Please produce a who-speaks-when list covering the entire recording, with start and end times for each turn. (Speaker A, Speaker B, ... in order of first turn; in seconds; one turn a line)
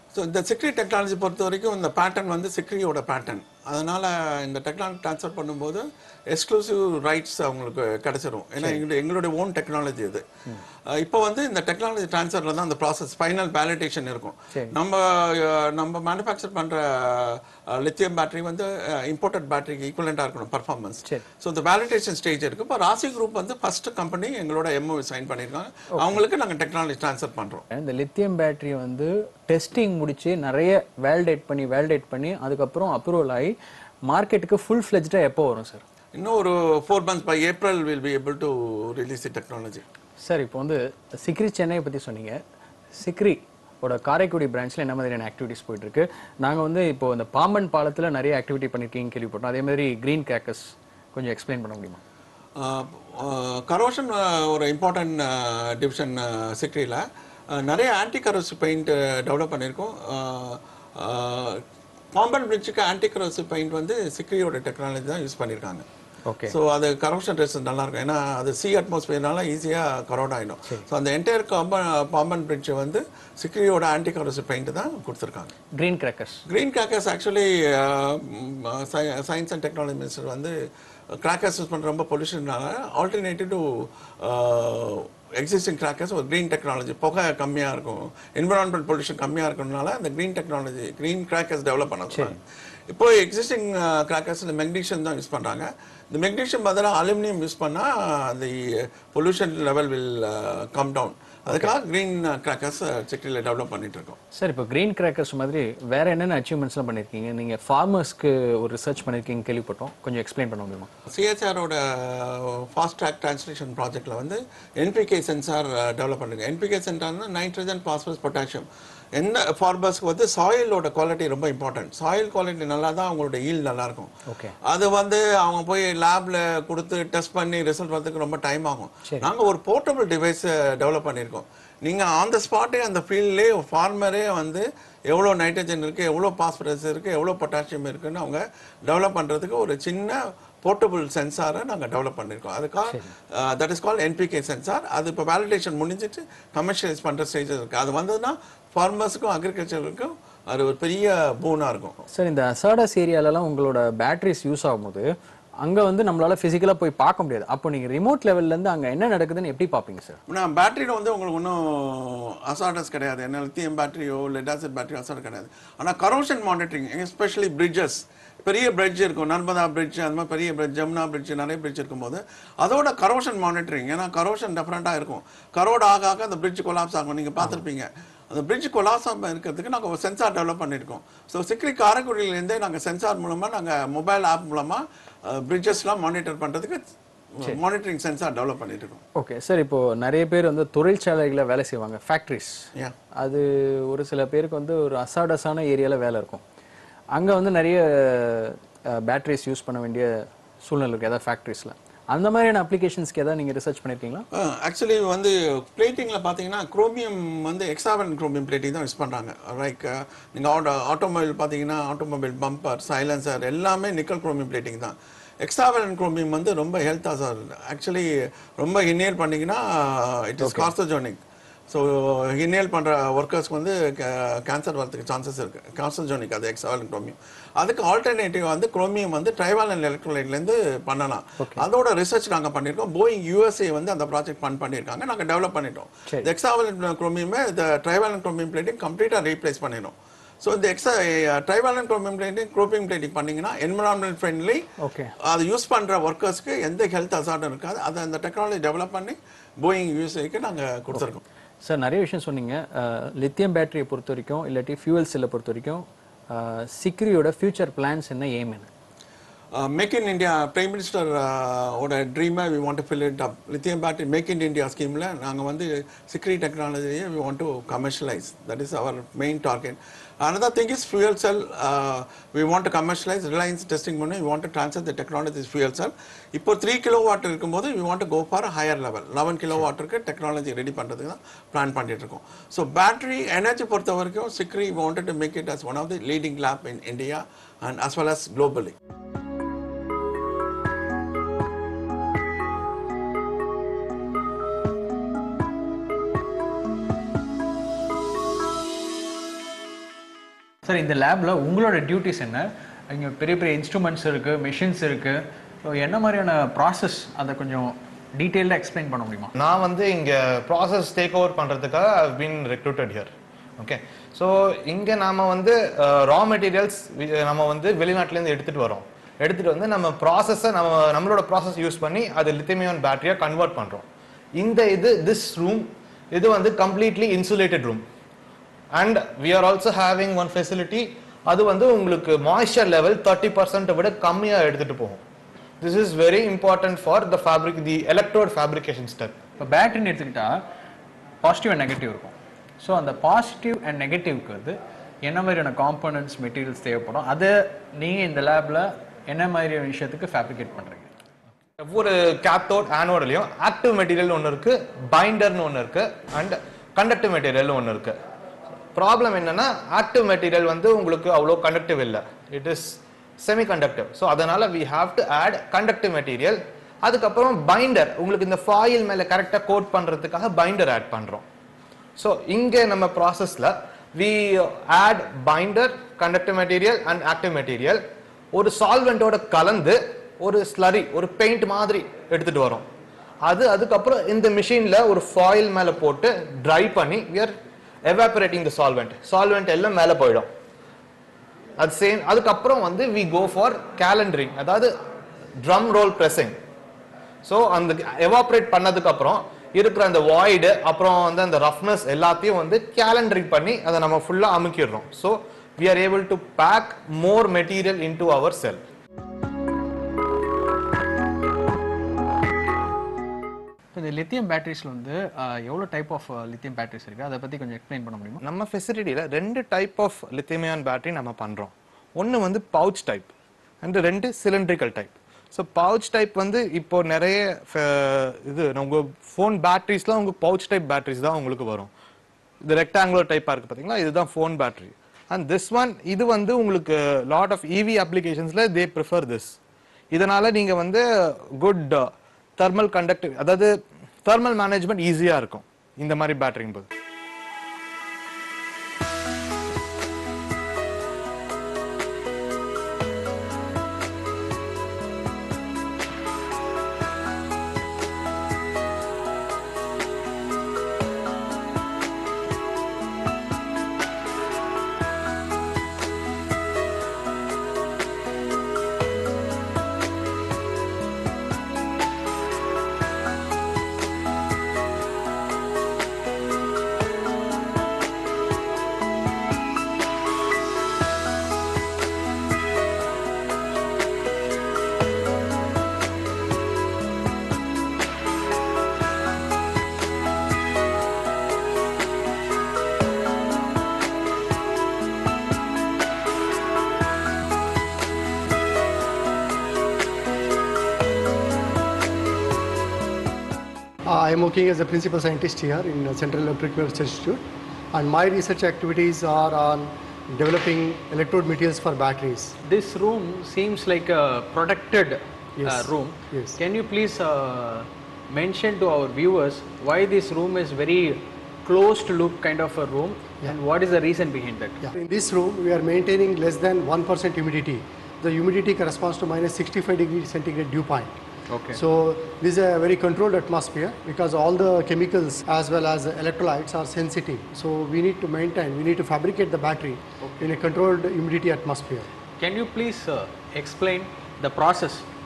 Speaker A: 0.1-10.2
Speaker A: 10.9-27.6
Speaker B: 27.7-33.5
Speaker B: 34.0-35.8
Speaker A: 36.1-39.8
Speaker B: 40.2-42.4
Speaker B: 42.9-52.0
Speaker A: 52.6-61.6
Speaker A: 62.1-65.8
Speaker B: 66.2-66.5
Speaker A: 66.5-75.5
Speaker B: 75.7-76.4
Speaker A: 76.5-80.5
Speaker A: 81.2-92.4
Speaker B: 92.1-92.4
Speaker A: 92.9-104.2
Speaker B: 101.5-101.7
Speaker B: 104.3-110.9
Speaker A: 111.1-124.1
Speaker B: 124.3-124.5
Speaker A: 124.6-151.9
Speaker B: 152.1-155.1
Speaker B: 155.6-160.2
Speaker A: 160.3-186.8
Speaker A: 187.4-189.0
Speaker B: 189.2-196.4
Speaker B: 197.1-204.3
Speaker A: 204.3-244.7
Speaker B: 220.4-220.7
Speaker B: 231.4-231.6
Speaker B: 244.8-245.1
Speaker A: 245.2-251.2
Speaker B: 251.6-258.7
Speaker A: 259.5-288.7
Speaker B: 300.6-309.3
Speaker C: 309.3-323.9
Speaker C: 324.4-327.8
Speaker C: 328.7-335.0
Speaker C: 335.6-339.2
Speaker B: 339.4-340.4
Speaker B: 341.2-350.9
Speaker C: 351.6-358.0
Speaker C: 358.7-371.2
Speaker C: 372.0-382.6
Speaker C: 383.2-390.3
Speaker C: 391.6-394.7
Speaker C: 395.4-396.4
Speaker C: 397.2-408.6
Speaker B: 413.7-418.2
Speaker C: 418.2-423.1
Speaker C: 423.6-431.7
Speaker C: 432.4-439.4
Speaker C: 439.9-440.8
Speaker C: 441.4-443.5
Speaker C: 444.0-446.7
Speaker D: 503.9-512.4
Speaker B: 512.4-524.6
Speaker D: 515.4-516.4
Speaker D: 524.6-530.9
Speaker B: 531.3-531.6
Speaker D: 531.5-541.9
Speaker B: 542.2-544.9